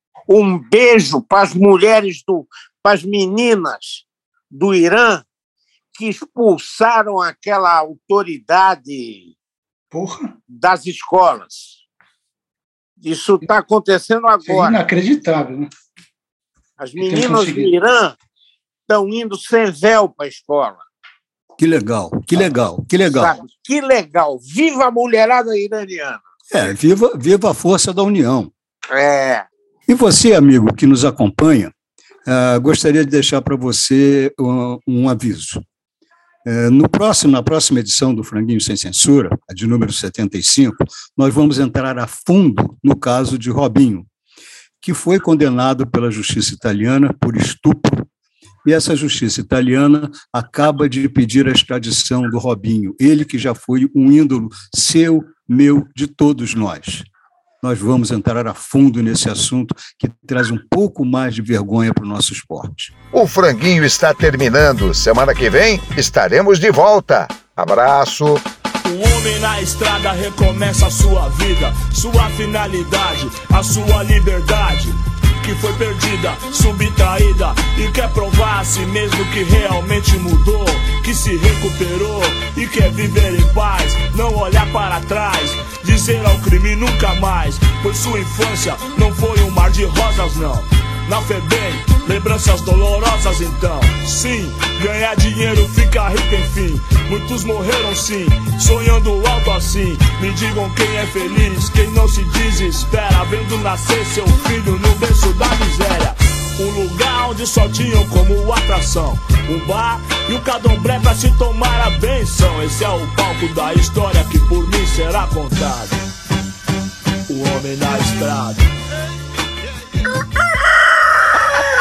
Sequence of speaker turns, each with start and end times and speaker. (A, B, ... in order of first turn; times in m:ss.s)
0:00.3-0:05.2 A
0:05.9-0:09.3 A
0:09.9-0:10.3 B
0:10.5-0:11.8 A
0:13.0-0:14.8 A
0:14.4-0:15.7 B
0:16.8-0:18.2 A
0:17.0-0:17.7 B
0:18.9-0:20.8 A
0:21.6-0:23.4 C
0:23.0-0:26.2 A
0:26.5-0:28.5 C
0:28.9-0:29.4 A
0:29.9-0:31.7 C
0:32.2-0:35.6 C
0:36.4-0:44.1 C
0:44.8-0:48.1 C
0:48.6-0:57.0 C
0:57.6-1:02.9 C
1:03.1-1:08.4 D
1:08.8-1:56.0 E
1:57.3-1:58.6 E